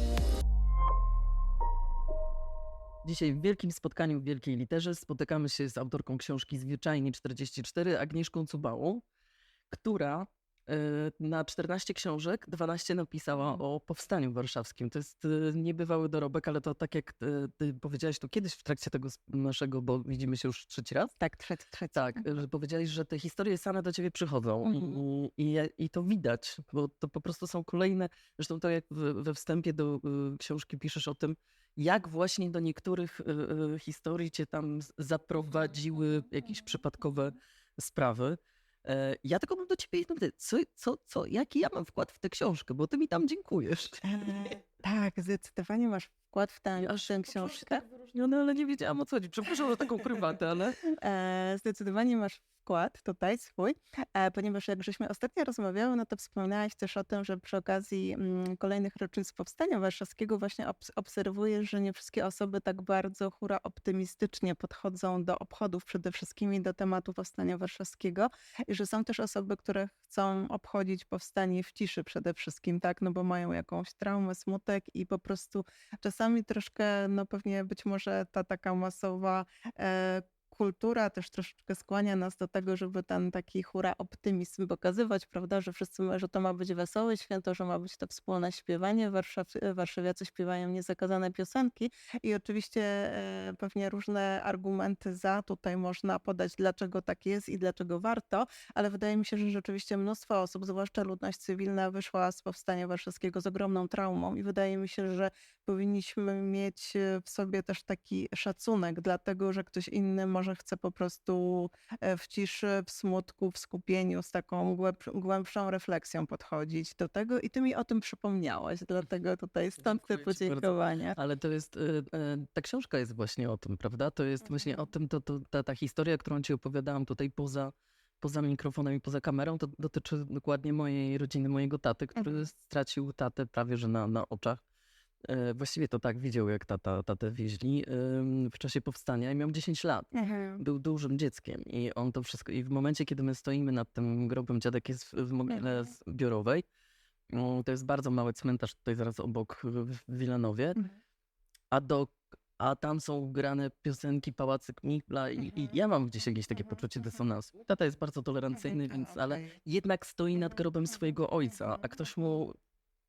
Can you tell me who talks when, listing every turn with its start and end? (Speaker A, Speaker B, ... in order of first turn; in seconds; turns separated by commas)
Speaker A: 3.0-9.0, Speaker A: 9.7-21.1, Speaker B: 21.2-22.2, Speaker A: 21.9-44.0, Speaker B: 44.0-47.8, Speaker A: 46.8-50.8, Speaker B: 50.9-121.2, Speaker A: 119.8-134.6, Speaker A: 135.2-146.6, Speaker B: 140.1-140.6, Speaker A: 147.3-150.8, Speaker A: 151.7-162.6, Speaker B: 158.9-159.5